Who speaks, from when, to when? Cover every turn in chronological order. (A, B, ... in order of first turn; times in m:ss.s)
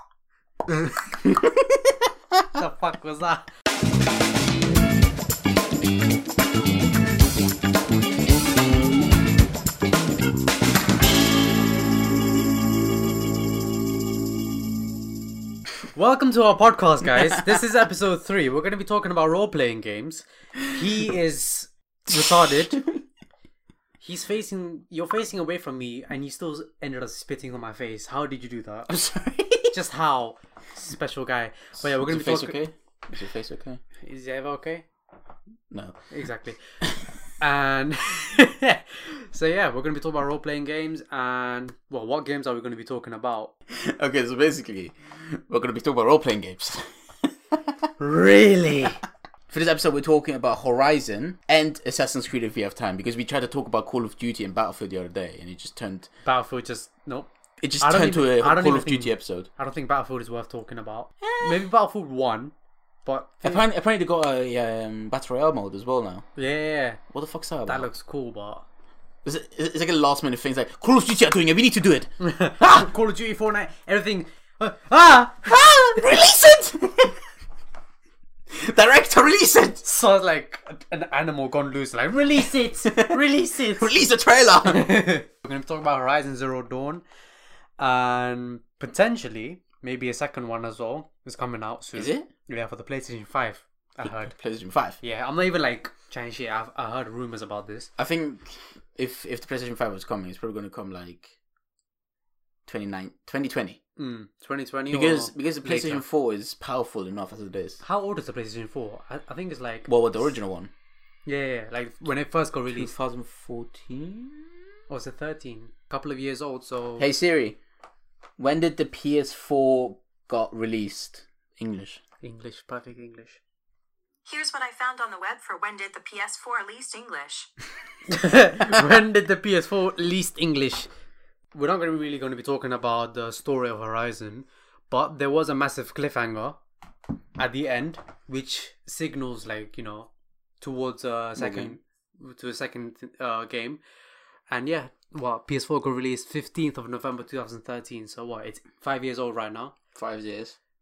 0:01.2-0:02.6 A
0:02.5-0:03.5 B
0:16.0-0:22.8 B
0:22.1-0:23.0 A
0:24.0-0:29.0 B
0:28.9-0:29.8 A
0:29.7-0:32.6 B
0:31.8-0:33.8 A
0:34.0-0:34.9 B
0:35.7-0:36.0 A
0:36.1-0:36.8 B
0:37.4-0:43.5 B
0:43.7-0:47.9 A
0:48.0-0:49.0 B
0:49.5-0:56.1 A
0:56.2-0:57.3 B
0:57.6-0:59.5 A
0:57.8-1:02.5 B
1:01.2-1:01.7 A
1:03.0-1:03.6 B
1:03.4-1:06.3 A
1:06.4-1:07.0 B
1:07.1-1:07.9 A
1:07.7-1:08.6 B
1:09.2-1:12.9 A
1:12.2-1:16.0 B
1:15.5-1:17.2 A
1:18.5-1:19.8 A
1:19.8-1:23.9 B
1:22.9-1:24.9 A
1:24.6-1:27.0 B
1:27.8-1:34.3 B
1:31.9-1:32.3 A
1:34.0-1:35.0 A
1:35.0-1:37.9 B
1:38.0-1:41.4 A
1:42.7-1:43.8 A
1:44.0-1:46.0 B
1:44.9-1:47.8 A
1:47.8-1:50.0 B
1:49.9-1:50.7 A
1:51.3-1:52.9 B
1:52.7-1:54.6 A
1:54.9-1:57.1 B
1:57.0-1:57.6 A
1:58.4-2:02.0 A
2:02.2-2:03.4 B
2:04.3-2:07.5 C
2:08.1-2:10.9 B
2:11.5-2:16.6 B
2:17.4-2:20.1 B
2:20.6-2:23.8 B
2:21.4-2:21.8 A
2:24.5-2:29.8 B
2:30.0-2:30.6 A